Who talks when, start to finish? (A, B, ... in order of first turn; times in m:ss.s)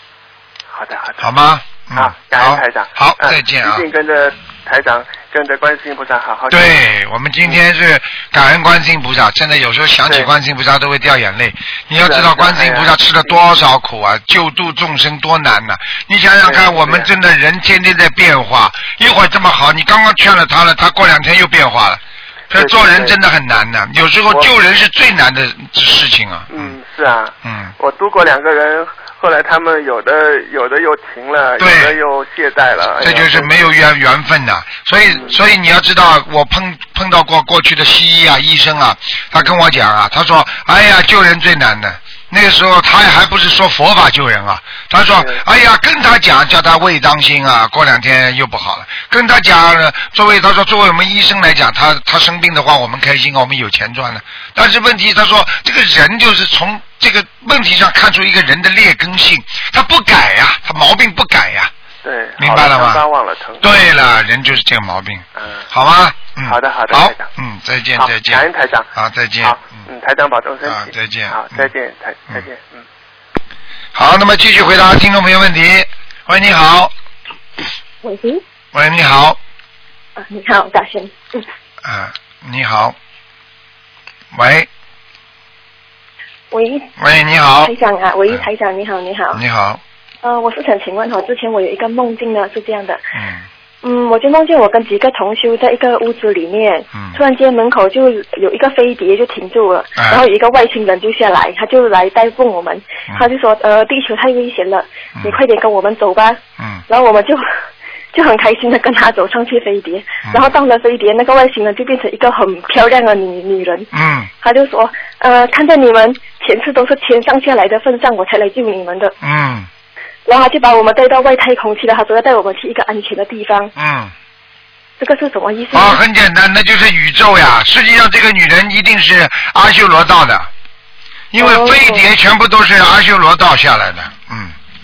0:00.7-0:01.3 A
0:01.2-0:03.9 B
0:01.9-0:06.8 A
0:06.5-0:26.8 B
0:12.0-0:13.4 A
0:16.4-0:17.1 A
0:22.5-0:23.2 A
0:26.5-0:33.7 A
0:27.4-0:27.7 B
0:31.6-0:32.0 B
0:33.0-1:01.7 B
0:35.0-0:35.4 A
0:45.2-0:45.4 A
1:02.0-1:03.8 A
1:02.4-1:03.0 B
1:03.6-1:09.9 B
1:05.4-1:05.7 A
1:06.4-1:07.3 A
1:08.0-1:08.9 A
1:09.4-1:12.8 A
1:10.6-1:11.7 B
1:13.9-1:16.9 B
1:18.0-1:18.4 C
1:18.7-1:19.4 B
1:20.2-1:21.4 C
1:21.8-1:23.0 B
1:24.3-1:24.7 B
1:26.5-1:26.9 C
1:27.0-1:27.7 B
1:27.6-1:29.4 C
1:29.3-1:29.8 B
1:30.2-1:33.0 C
1:33.1-1:33.5 B
1:33.8-1:47.4 C
1:40.0-1:40.2 B
1:46.6-1:46.8 B
1:48.1-1:53.9 C
1:53.9-1:54.3 B
1:54.4-1:59.1 C
1:59.2-1:59.7 B
2:00.3-2:03.7 C
2:03.8-2:04.1 B
2:05.0-2:06.0 C
2:05.7-2:10.5 B
2:11.3-2:14.6 B
2:11.4-2:12.0 C